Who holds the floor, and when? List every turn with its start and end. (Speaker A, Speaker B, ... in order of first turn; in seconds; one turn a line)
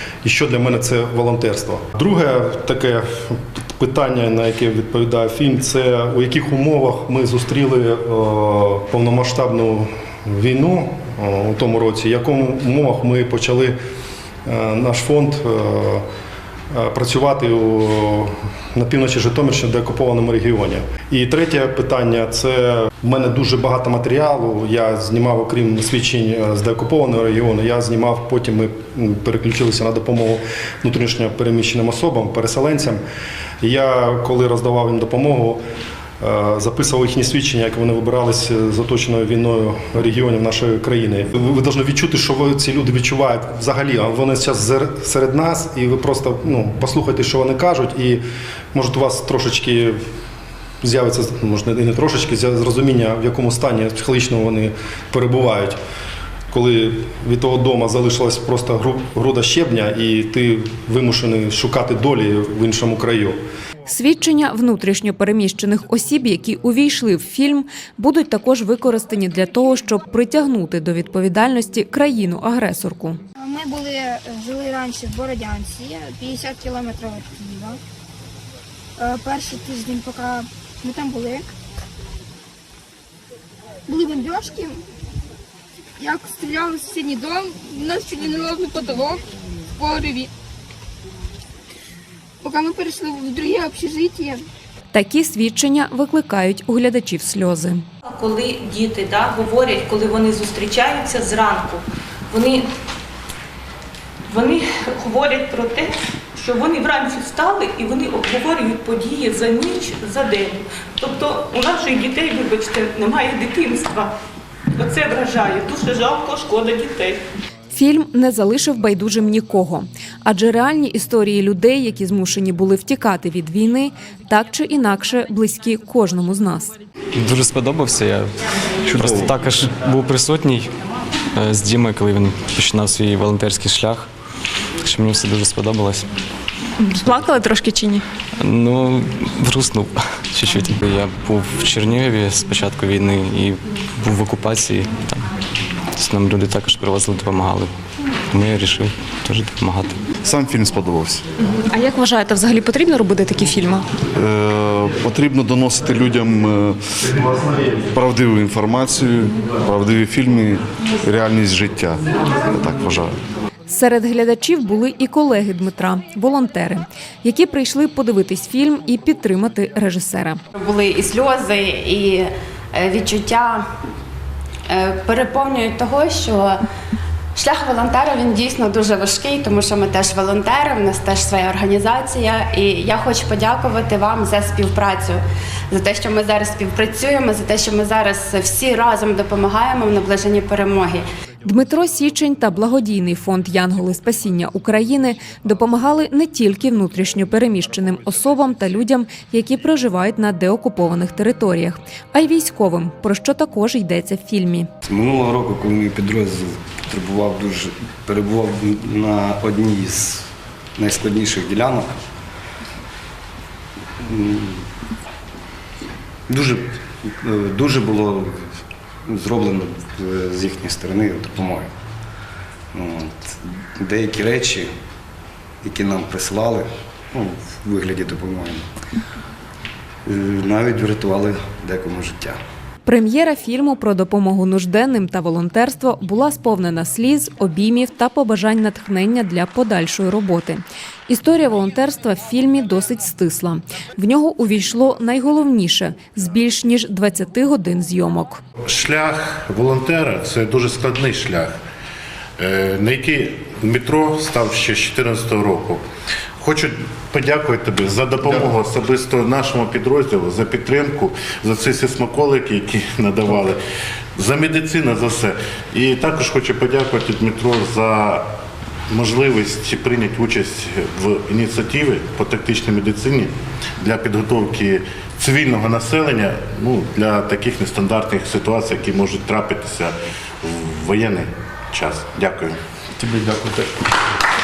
Speaker A: 0.2-13.8
Speaker A: 14.4-16.0
Speaker A: 16.7-33.0
Speaker A: 33.6-35.6
Speaker A: 36.2-48.2
Speaker A: 48.7-50.0
Speaker A: 50.8-55.8
Speaker A: 56.5-63.4
Speaker B: 63.9-73.2
Speaker C: 73.4-77.8
Speaker C: 79.0-81.5
Speaker C: 83.9-84.8
Speaker C: 86.0-89.2
Speaker C: 89.8-90.3
Speaker C: 92.4-94.4
Speaker B: 94.9-97.8
Speaker D: 98.0-102.7
Speaker D: 104.3-114.1
Speaker D: 114.8-117.2
Speaker B: 117.7-126.7
Speaker E: 127.2-128.3
Speaker E: 128.8-130.7
Speaker E: 131.3-134.1
Speaker E: 134.8-136.1
Speaker F: 136.9-137.9
Speaker E: 138.4-145.2
Speaker E: 146.0-147.7
Speaker E: 148.3-150.0
Speaker G: 150.2-151.2
Speaker F: 151.7-153.8
Speaker G: 154.1-157.0
Speaker A: 157.1-157.8
Speaker G: 157.9-163.2
Speaker B: 163.7-170.4
Speaker H: 170.6-173.7
Speaker H: 174.7-176.6
Speaker H: 177.3-191.0
Speaker B: 191.4-204.7
Speaker I: 204.8-212.0
Speaker I: 214.0-214.7
Speaker I: 216.3-221.7
Speaker I: 222.7-224.7
Speaker I: 225.6-228.6
Speaker I: 230.1-232.4
Speaker B: 232.8-248.4
Speaker J: 248.7-251.5
Speaker J: 252.4-255.8
Speaker J: 256.4-263.6
Speaker J: 264.2-268.2
Speaker J: 268.9-282.6